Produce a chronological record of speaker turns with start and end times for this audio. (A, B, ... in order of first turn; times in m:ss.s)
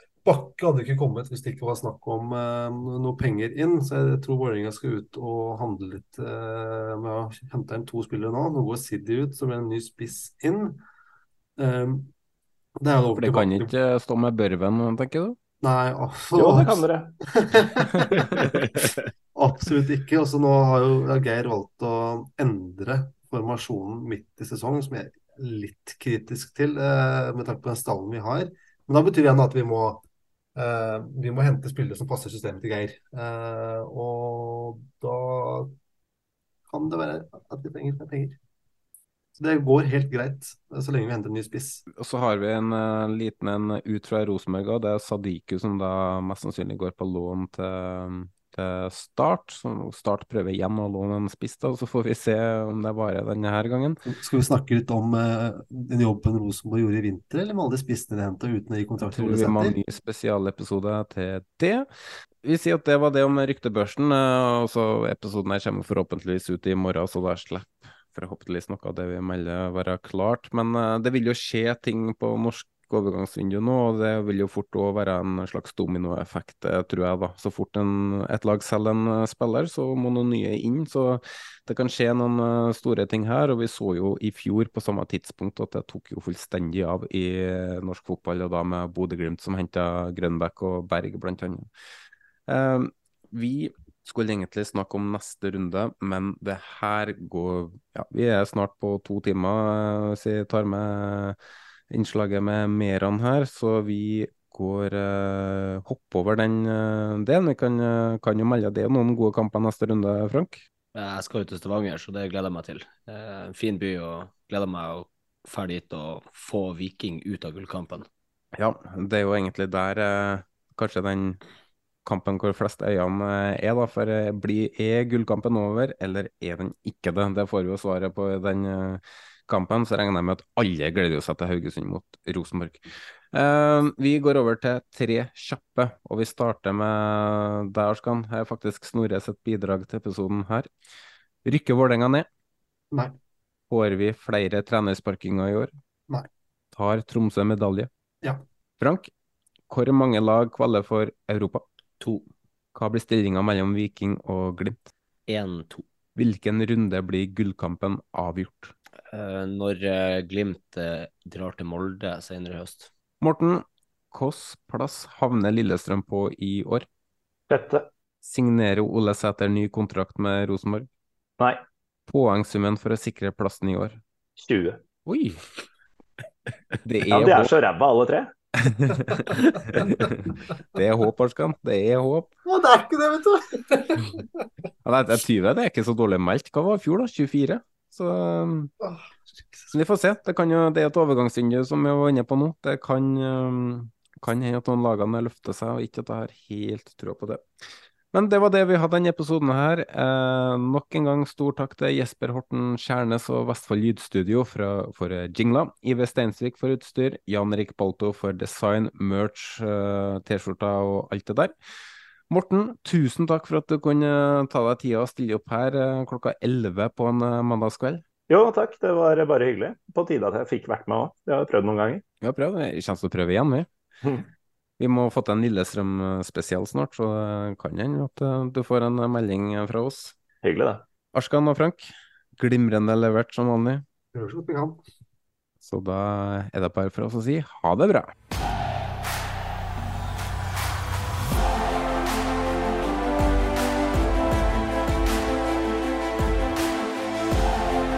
0:00.2-0:10.8 A
0:11.6-0:12.1 A
0:12.8-0:13.7 A
0:13.2-0:15.4 B
0:15.6-0:18.4 A
0:16.4-0:17.2 C
0:19.4-0:30.0 A
0:30.6-0:35.8 A
0:36.7-0:38.4 A
0:39.4-0:41.8 A
0:42.0-0:54.0 B
0:54.1-0:59.8 A
0:59.0-1:01.9 B
1:02.4-1:31.7 B
1:32.5-1:41.4 B
1:41.9-1:50.6 B
1:50.9-1:58.1 D
1:58.6-2:01.4 B
2:02.0-2:20.7 B
2:21.4-2:22.3 B
2:22.9-2:23.2 A
2:23.7-2:25.7 B
2:26.7-2:27.9 B
2:28.8-2:29.1 B
2:29.7-2:31.6 B
2:32.0-2:32.3 D
2:32.7-2:34.9 B
2:35.3-2:35.8 D
2:36.2-2:38.7 B
2:39.1-2:42.9 D
2:43.2-2:46.9 B
2:47.5-2:47.9 C
2:48.2-2:50.9 B
2:52.1-2:54.0 B
2:54.4-2:54.8 C
2:55.1-2:55.5 B
2:56.8-2:57.5 B
2:57.1-2:58.3 C
2:58.6-3:02.3 B
2:59.1-3:00.1 A
3:02.4-3:04.4 A
3:04.8-3:08.7 B
3:09.7-3:17.4 B
3:18.1-3:31.5 B
3:32.3-3:38.0 B
3:38.3-3:42.0 C
3:42.2-3:43.7 B
3:44.8-3:50.2 B
3:50.4-3:50.8 C
3:51.1-3:53.8 B
3:54.1-3:54.8 A
3:55.6-3:58.1 B